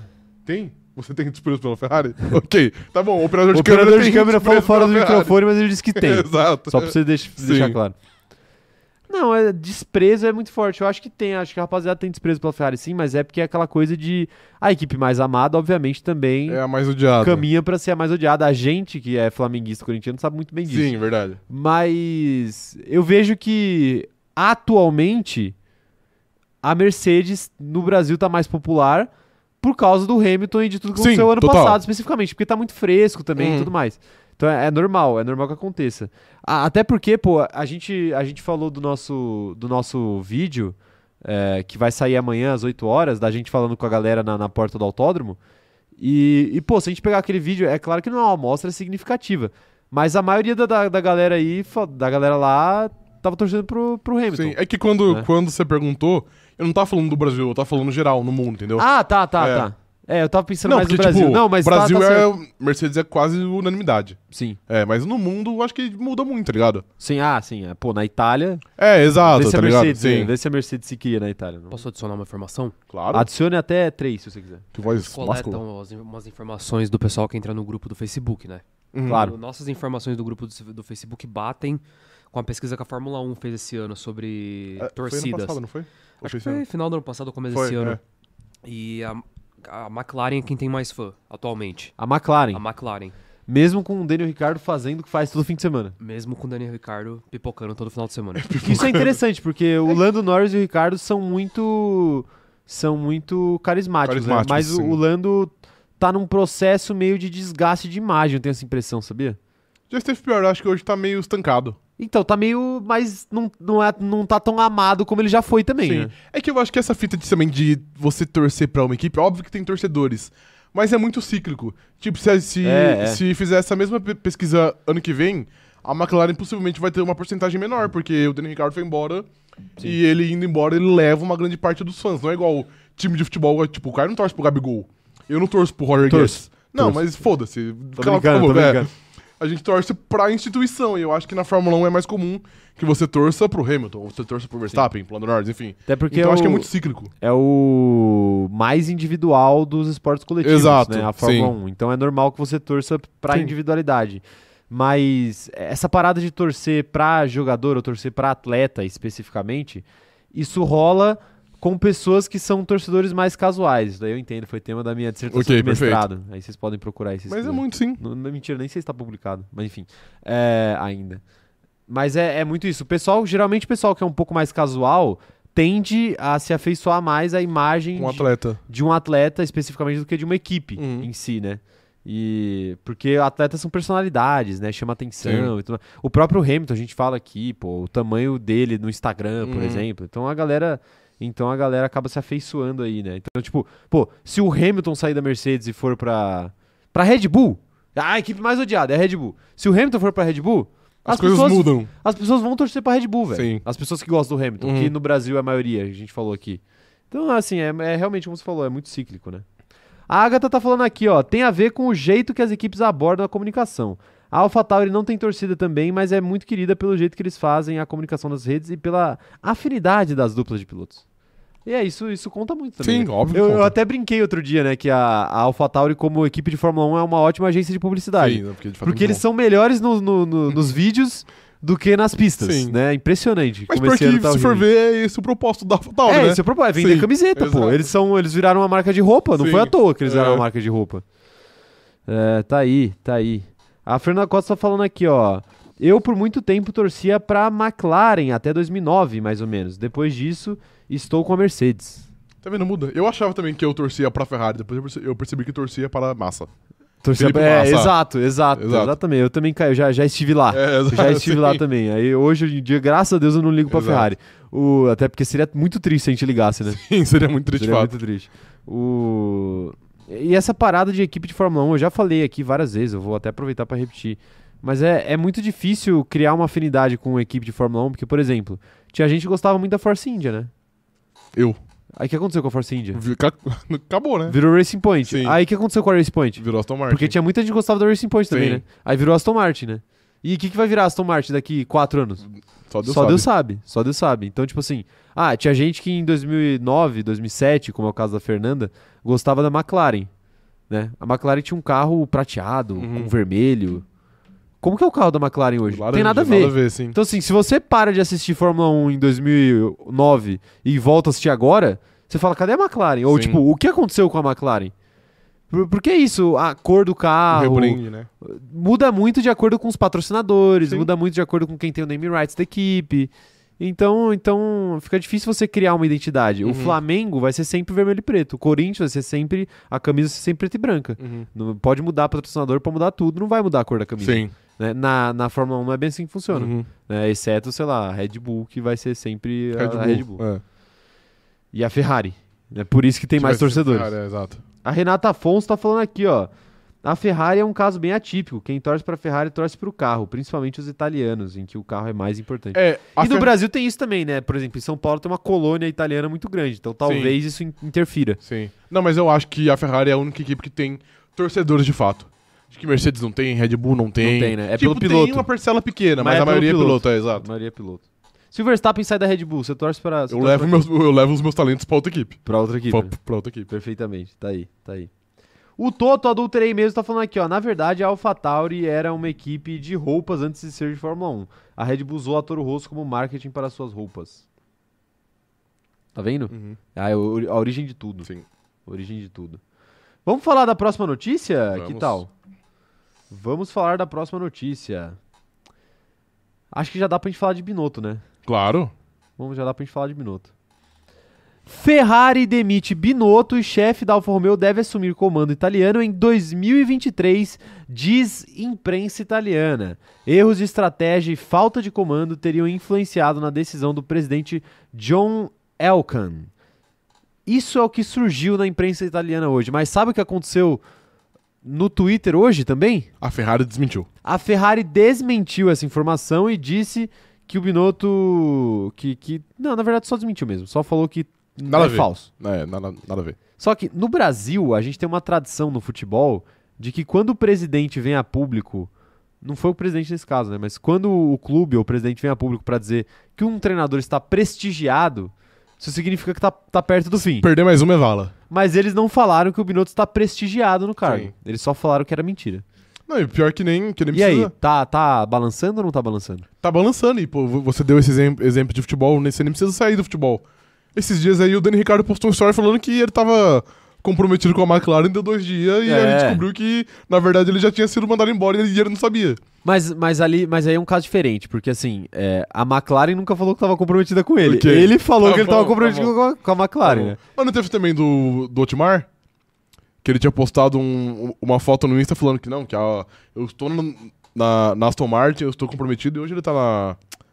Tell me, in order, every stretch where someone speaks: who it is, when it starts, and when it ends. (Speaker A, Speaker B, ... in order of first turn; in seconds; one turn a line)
Speaker A: 0.5-7.8
Speaker B: 3.5-7.9
Speaker B: 9.1-16.6
Speaker A: 16.5-17.4
Speaker B: 17.2-20.9
Speaker A: 20.7-21.4
Speaker B: 21.5-25.5
Speaker B: 26.6-29.1
Speaker B: 29.6-45.4
Speaker A: 30.9-31.8
Speaker A: 33.4-33.7
Speaker B: 46.0-54.6
Speaker A: 54.3-58.8
Speaker B: 58.8-62.3
Speaker A: 59.4-59.7
Speaker A: 60.6-66.8
Speaker B: 64.3-64.6
Speaker B: 67.0-68.6
Speaker A: 68.8-70.3
Speaker B: 69.2-71.8
Speaker C: 71.7-72.7
Speaker A: 72.9-73.3
Speaker B: 73.1-74.7
Speaker A: 74.7-75.6
Speaker C: 75.0-81.8
Speaker A: 78.9-79.3
Speaker B: 79.0-79.3
Speaker C: 82.3-85.6
Speaker A: 84.8-86.6
Speaker C: 86.2-88.0
Speaker A: 87.5-88.0
Speaker C: 88.6-91.9
Speaker B: 92.0-92.6
Speaker C: 92.5-93.1
Speaker B: 93.5-96.0
Speaker C: 96.0-98.5
Speaker A: 98.3-99.2
Speaker B: 98.6-109.4
Speaker A: 104.0-105.0
Speaker A: 109.9-111.8
Speaker B: 112.0-116.1
Speaker A: 115.8-129.3
Speaker B: 122.6-123.2
Speaker A: 129.8-147.1
Speaker B: 136.1-137.1
Speaker B: 138.0-138.9
Speaker B: 145.9-171.2
Speaker A: 150.4-151.5
Speaker A: 165.3-166.0
Speaker A: 167.3-168.0
Speaker B: 171.9-209.4
Speaker A: 177.9-178.6
Speaker A: 180.8-181.1
Speaker A: 185.2-185.5
Speaker A: 189.4-189.8
Speaker A: 201.1-201.9
Speaker A: 203.3-203.6
Speaker A: 204.6-204.9
Speaker B: 210.1-221.0
Speaker B: 221.7-234.6
Speaker A: 222.8-223.7
Speaker A: 228.2-229.2
Speaker A: 232.4-232.8
Speaker A: 233.7-237.9
Speaker B: 236.1-241.0
Speaker A: 239.4-240.4
Speaker B: 242.1-252.1
Speaker A: 252.4-256.5
Speaker B: 257.0-266.8
Speaker A: 257.1-257.9
Speaker A: 258.5-258.9
Speaker A: 260.5-261.6
Speaker A: 263.7-264.1
Speaker A: 266.7-267.9
Speaker B: 267.5-280.5
Speaker B: 282.0-283.0
Speaker A: 282.9-284.4
Speaker B: 284.3-292.2
Speaker A: 285.1-285.4
Speaker A: 286.4-287.1
Speaker A: 288.3-288.6
Speaker A: 292.6-293.3
Speaker B: 292.8-300.1
Speaker B: 300.7-303.8
Speaker A: 302.8-303.1
Speaker B: 304.6-314.7
Speaker A: 305.6-307.0
Speaker A: 313.1-313.4
Speaker B: 315.5-340.2
Speaker A: 317.3-318.1
Speaker A: 326.4-326.8
Speaker A: 331.0-331.3
Speaker A: 334.0-334.3
Speaker A: 336.3-336.7
Speaker A: 339.6-340.4
Speaker B: 341.5-343.9
Speaker A: 343.2-344.4
Speaker B: 344.6-346.3
Speaker B: 346.8-358.2
Speaker A: 352.5-353.3
Speaker A: 356.8-357.1
Speaker A: 358.2-367.3
Speaker B: 364.0-365.3
Speaker B: 366.0-370.6
Speaker A: 370.1-373.5
Speaker B: 372.2-372.9
Speaker B: 373.5-374.9
Speaker B: 375.6-384.2
Speaker B: 385.9-388.1
Speaker A: 386.3-386.6
Speaker B: 388.6-389.4
Speaker B: 390.0-392.1
Speaker A: 391.5-392.0
Speaker B: 393.1-395.0
Speaker B: 396.5-398.0
Speaker A: 398.2-398.7
Speaker B: 399.2-400.3
Speaker B: 401.4-416.3
Speaker B: 417.2-420.6
Speaker B: 421.4-422.9
Speaker A: 423.0-423.9
Speaker B: 424.0-432.1
Speaker A: 431.5-433.2
Speaker B: 433.4-438.7
Speaker B: 439.2-447.3
Speaker A: 447.0-448.1
Speaker B: 448.3-452.4
Speaker A: 450.8-451.1
Speaker A: 452.9-454.3
Speaker B: 453.9-456.2
Speaker A: 456.4-460.2
Speaker A: 460.7-469.2
Speaker B: 465.6-466.2
Speaker B: 469.4-477.0
Speaker A: 474.2-475.9
Speaker A: 476.6-478.9
Speaker A: 479.8-486.8